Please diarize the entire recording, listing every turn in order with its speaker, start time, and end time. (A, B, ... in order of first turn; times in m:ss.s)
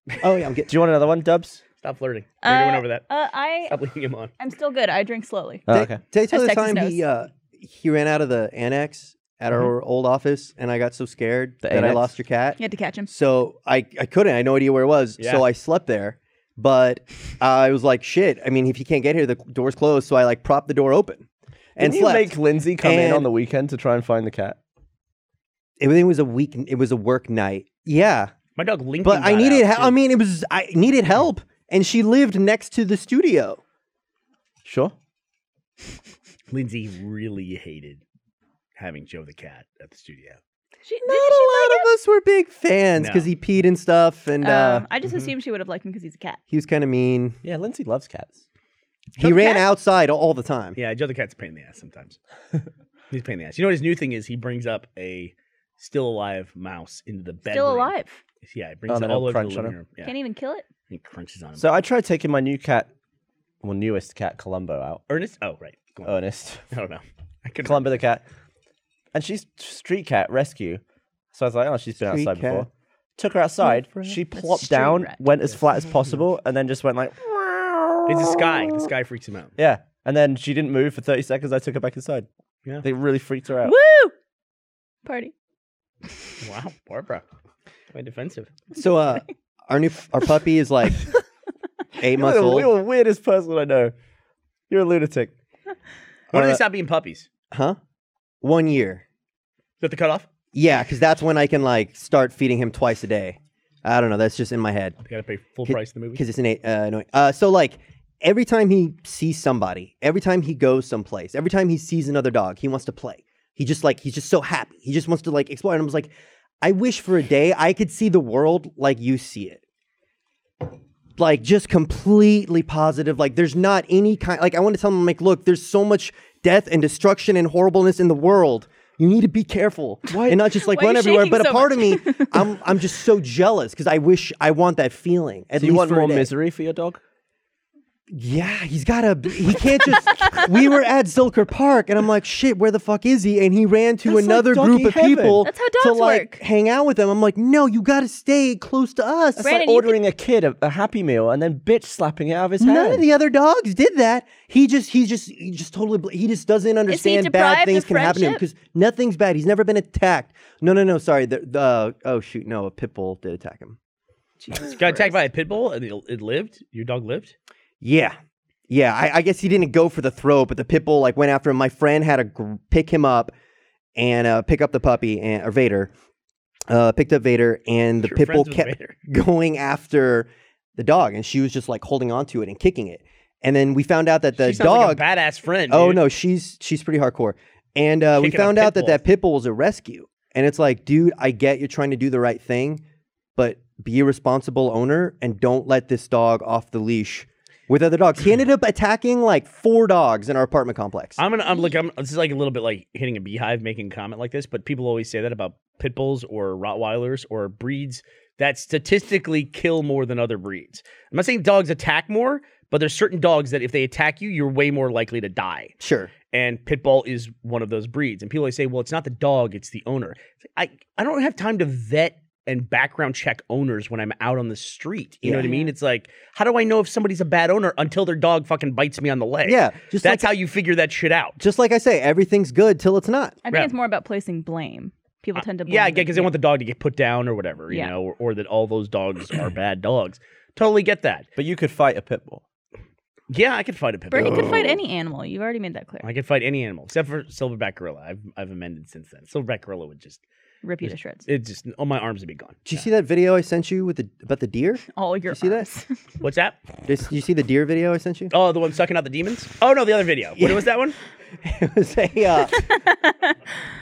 0:00.2-0:00.7 A
0:00.7-0:01.6 B
0:01.8-0:03.0 C
0:02.4-0:03.8 D
0:03.7-0:04.3 C
0:04.4-0:05.7 D
0:05.7-0:06.0 B
0:05.7-0:21.2 A
0:06.3-0:07.0 D
0:11.6-0:12.1 B
0:12.6-0:13.1 D
0:15.2-0:15.4 C
0:21.8-0:23.3 A
0:21.8-0:24.6 B
0:25.8-0:28.3 A
0:28.6-0:30.0 C
0:29.0-0:33.6 A
0:34.6-0:34.9 B
0:36.5-0:38.0 C
0:38.8-0:40.4 C
0:40.8-0:41.9 D
0:41.1-0:44.8 A
0:43.0-0:43.3 C
0:44.4-0:46.4 D
0:46.5-0:47.4 A
0:47.4-0:48.4 B
0:49.2-0:50.8 A
0:49.2-0:49.7 D
0:50.8-0:52.2 C
0:53.1-1:00.1 C
0:57.5-0:58.2 D
0:58.9-0:59.8 B
1:00.0-1:00.6 D
1:00.9-1:01.6 C
1:01.6-1:02.9 B
1:03.6-1:05.0 B
1:05.1-1:06.1 C
1:06.0-1:06.6 B
1:06.7-1:08.0 C
1:07.6-1:08.2 B
1:09.1-1:10.8 B
1:11.3-1:18.9 B
1:12.0-1:12.7 A
1:13.7-1:14.2 A
1:14.3-1:15.2 D
1:18.1-1:19.5 C
1:19.6-1:22.3 B
1:22.8-1:23.7 B
1:23.6-1:24.1 D
1:25.0-1:25.3 D
1:26.4-1:27.2 C
1:27.9-1:28.6 C
1:28.7-1:31.1 A
1:32.0-1:32.7 A
1:32.0-1:33.9 B
1:34.7-1:35.3 B
1:36.3-1:37.3 C
1:36.3-1:36.6 A
1:37.5-1:37.8 A
1:38.4-1:39.0 A
1:39.8-1:40.2 C
1:40.5-1:45.0 A
1:45.1-1:46.2 C
1:45.7-1:56.1 A
1:56.6-1:59.6 A
2:01.2-2:16.3 A
2:10.1-2:10.4 B
2:10.4-2:12.7 D
2:15.6-2:17.0 B
2:18.1-2:29.5 A
2:20.1-2:20.4 D
2:24.0-2:25.5 B
2:25.4-2:26.4 D
2:29.4-2:33.1 B
2:29.4-2:30.0 D
2:32.6-2:43.8 A
2:36.9-2:38.4 D
2:44.4-2:45.2 D
2:44.6-2:47.3 C
2:47.8-2:48.2 A
2:48.7-2:53.3 A
2:54.0-2:55.9 A
2:56.7-3:05.0 A
2:58.0-2:59.0 C
3:04.4-3:06.0 C
3:05.7-3:12.8 A
3:08.2-3:09.0 C
3:13.4-3:21.2 A
3:21.2-3:35.7 C
3:35.8-3:36.1 A
3:36.3-3:51.4 C
3:45.2-3:45.5 A
3:45.4-3:45.7 D
3:49.4-3:50.3 A
3:51.4-3:53.4 A
3:53.4-3:56.3 D
3:55.4-4:01.3 C
4:01.4-4:02.4 B
4:03.3-4:04.6 C
4:04.1-4:06.0 D
4:04.2-4:04.7 A
4:06.0-4:10.2 C
4:10.6-4:11.3 D
4:10.8-4:12.8 C
4:12.7-4:15.6 A
4:14.9-4:16.0 D
4:16.2-4:16.6 C
4:16.8-4:18.3 A
4:18.3-4:21.0 C
4:20.4-4:20.6 A
4:21.4-4:22.7 A
4:22.5-4:23.3 D